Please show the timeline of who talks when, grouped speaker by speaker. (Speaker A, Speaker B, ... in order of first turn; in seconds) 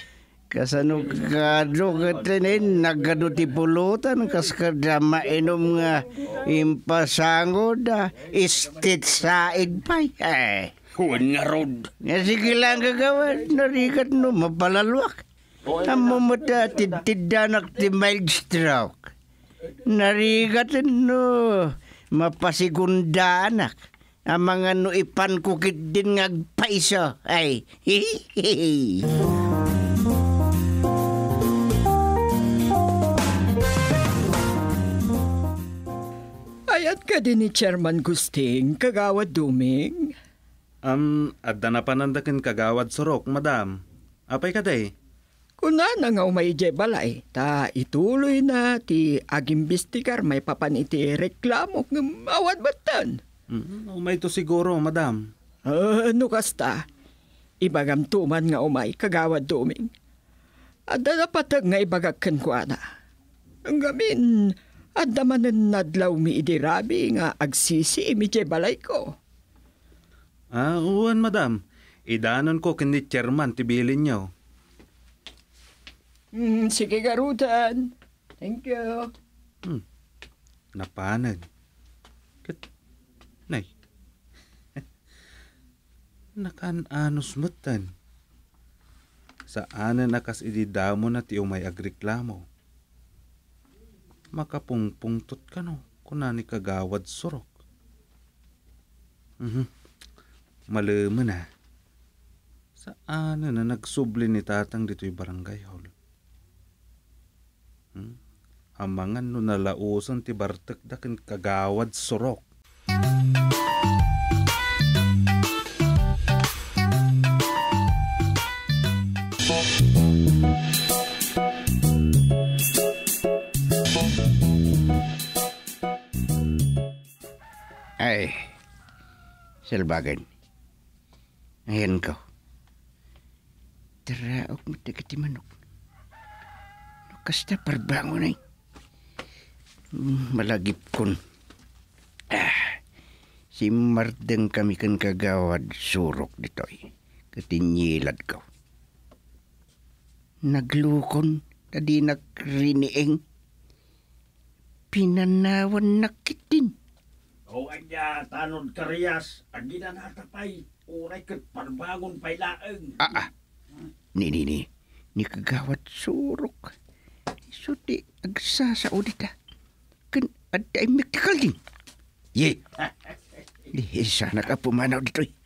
Speaker A: 0.5-10.7, 12.0-19.1, 19.9-23.8, 24.3-29.1, 128.0-128.5, 129.7-130.2, 131.7-132.2, 134.1-135.5, 137.1-138.4, 139.9-141.2, 142.3-142.8, 143.6-148.4, 150.5-153.2, 154.9-156.7, 163.0-163.3, 164.2-166.7, 167.5-169.3, 170.1-171.6, 172.3-172.7, 173.7-175.3
Speaker B: 10.9-11.9, 157.5-163.0
Speaker C: 36.7-40.1, 45.6-53.2, 55.6-56.9, 57.6-59.9, 60.9-62.8, 63.6-69.2, 76.3-79.1
Speaker D: 40.8-43.8, 44.3-44.9, 53.5-55.3, 70.5-74.3, 80.8-81.4, 86.4-87.9, 89.5-92.4, 94.3-97.5, 99.4-99.7, 100.7-101.5, 102.8-105.9, 108.8-112.4